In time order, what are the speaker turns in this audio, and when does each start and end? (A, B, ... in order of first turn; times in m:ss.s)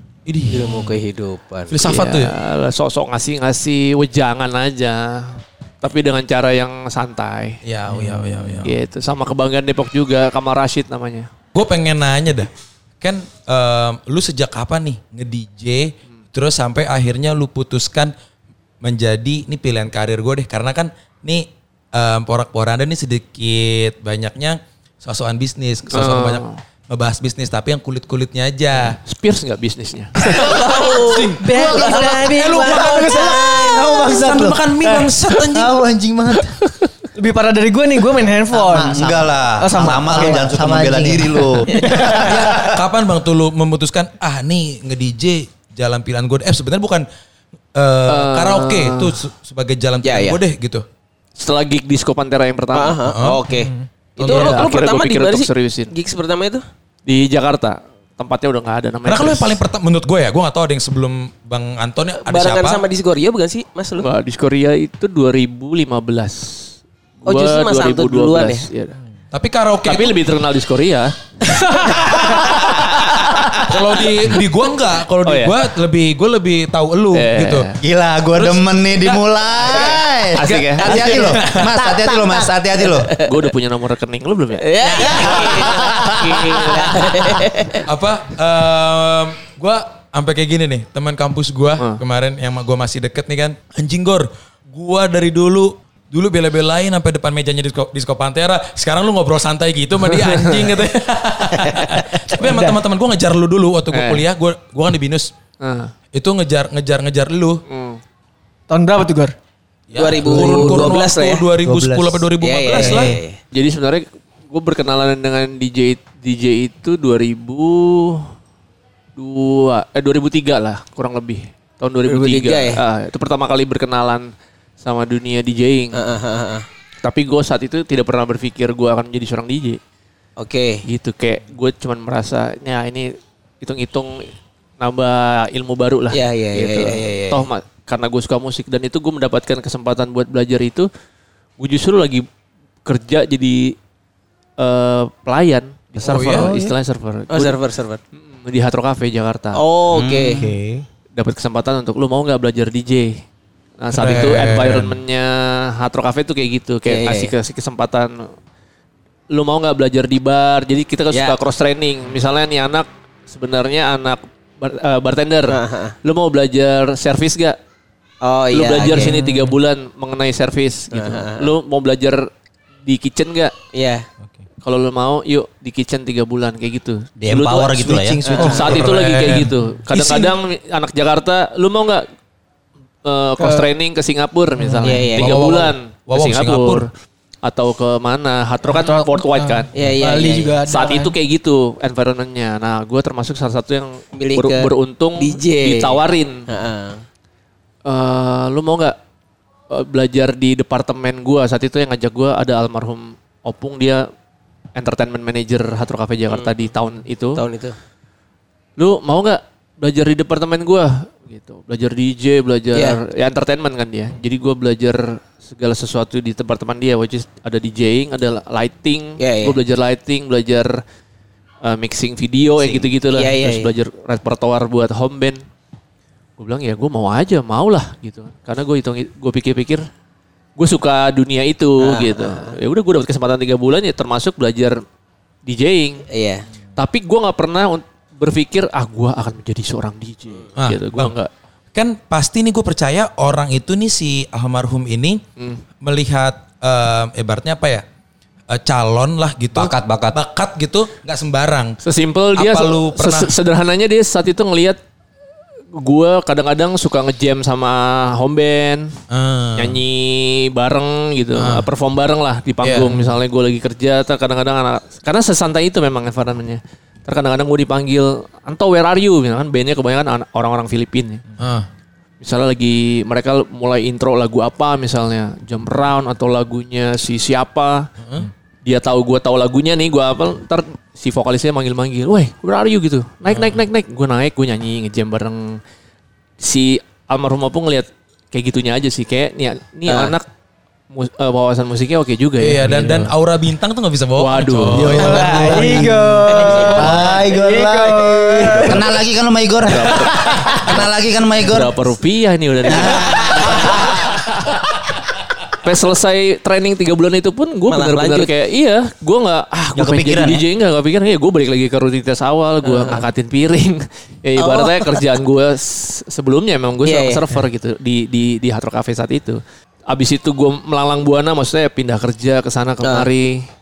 0:00.3-0:01.0 A
0:00.5-0:01.7 B
0:01.7-0:02.4 A
0:01.8-0:07.6 C
0:07.6-0:08.7 A
0:08.6-0:11.3 C
0:11.5-0:12.5 A
0:13.0-0:18.1 A
0:18.8-0:29.0 A
0:25.9-0:26.6 C
0:29.0-0:30.3 C
0:30.2-0:32.1 B
0:30.2-0:35.8 A
0:31.4-0:33.5 D
0:31.5-0:36.6 E
0:32.7-0:33.8 B
0:37.2-0:40.6 D
0:38.6-0:42.7 F
0:38.7-0:42.7 E
0:42.2-0:47.0 A
0:47.8-0:50.8 A
0:48.1-0:49.2 C
0:50.0-0:50.4 B
0:51.4-0:53.0 C
0:52.7-0:56.6 B
0:53.1-0:53.4 A
0:54.2-0:54.7 A
0:54.2-0:55.9 C
0:57.1-0:59.6 C
0:59.1-1:02.8 A
1:02.2-1:04.1 B
1:04.0-1:09.0 C
1:07.3-1:08.7 B
1:09.3-1:10.2 A
1:09.9-1:11.1 C
1:11.5-1:13.4 B
1:12.3-1:13.3 C
1:13.5-1:17.7 A
1:15.2-1:15.6 C
1:17.1-1:17.8 C
1:17.8-1:23.1 F
1:18.3-1:21.7 A
1:20.4-1:21.1 C
1:20.9-1:21.3 B
1:21.0-1:22.5 E
1:22.9-1:23.4 B
1:23.2-1:25.7 C
1:24.6-1:27.8 B
1:24.9-1:25.7 F
1:26.4-1:27.0 C
1:27.8-1:45.3 A
1:40.1-1:40.7 C
1:42.4-1:42.8 D
1:43.9-1:44.2 C
1:45.6-1:45.9 C
1:46.2-1:47.6 A
1:47.7-1:48.0 C
1:48.7-1:49.3 D
1:49.9-1:53.2 A
1:50.0-1:51.5 B
1:50.2-1:50.9 D
1:51.6-1:53.1 E
1:52.4-1:53.4 B
1:53.5-1:58.2 C
1:59.2-2:04.3 C
2:02.1-2:02.8 B
2:04.8-2:06.0 C
2:05.9-2:06.6 B
2:07.0-2:09.8 C
2:10.4-2:10.8 B
2:10.9-2:14.3 C
2:14.8-2:20.9 C
2:16.1-2:17.4 B
2:21.6-2:22.2 C
2:22.8-2:23.8 C
2:24.6-2:27.6 C
2:26.0-2:26.5 A
2:26.2-2:26.8 E
2:27.3-2:28.0 B
2:28.2-2:29.6 C
2:29.6-2:30.5 B
2:29.9-2:30.5 F
2:30.3-2:30.8 E
2:31.2-2:33.2 C
2:33.8-2:38.3 C
2:33.9-2:35.0 A
2:36.9-2:37.3 B
2:39.3-2:47.6 C
2:45.5-2:46.0 B
2:48.2-2:49.2 B
2:48.5-2:52.3 C
2:50.9-2:51.5 B
2:52.9-2:53.5 C
2:53.7-2:54.1 B
2:54.6-3:02.1 C
2:57.2-2:58.6 F
2:58.2-3:00.4 A
2:58.3-2:58.9 B
3:03.0-3:06.9 C
3:03.4-3:03.7 D
3:04.8-3:05.4 B
3:05.1-3:06.8 A
3:07.4-3:09.7 C
3:08.6-3:11.1 D
3:09.8-3:10.6 B
3:10.7-3:16.4 C
3:14.1-3:17.0 B
3:17.9-3:19.0 C
3:19.7-3:24.0 C
3:24.8-3:27.4 C
3:27.4-3:27.8 B
3:28.8-3:40.8 C
3:39.2-3:39.6 B
3:41.6-3:45.4 C
3:42.6-3:43.7 B
3:46.4-3:49.8 C
3:50.6-3:54.8 C
3:51.8-3:52.6 B
3:55.5-3:56.1 C
3:56.1-3:56.4 B
3:56.8-4:01.3 C
4:00.6-4:01.1 A
4:01.7-4:05.2 A
4:05.8-4:07.8 A
4:08.5-4:11.8 A
4:09.6-4:10.2 F
4:11.8-4:14.8 C
4:12.4-4:13.3 A
4:15.8-4:18.9 C
4:19.1-4:19.8 A
4:19.6-4:31.2 C
4:21.4-4:21.7 A
4:22.6-4:23.1 A
4:31.4-4:31.7 A
4:32.2-4:37.9 C
4:38.0-4:38.3 A
4:38.6-4:45.6 C
4:43.3-4:43.6 A
4:46.4-4:50.3 C
4:49.9-4:50.1 B
4:50.9-4:53.1 C
4:52.4-4:55.8 A
4:54.2-4:55.3 C
4:55.0-4:58.8 D
4:55.1-4:55.6 B
4:55.1-4:58.8 E
4:56.3-4:57.0 B
4:56.4-4:57.0 A
4:58.6-5:01.7 F
4:59.6-5:00.8 C
5:01.4-5:04.1 C
5:02.7-5:03.8 F
5:02.8-5:03.9 B
5:05.6-5:23.4 C
5:07.7-5:08.3 B
5:09.8-5:10.4 F
5:12.7-5:13.0 B
5:14.4-5:15.0 B
5:16.8-5:17.2 B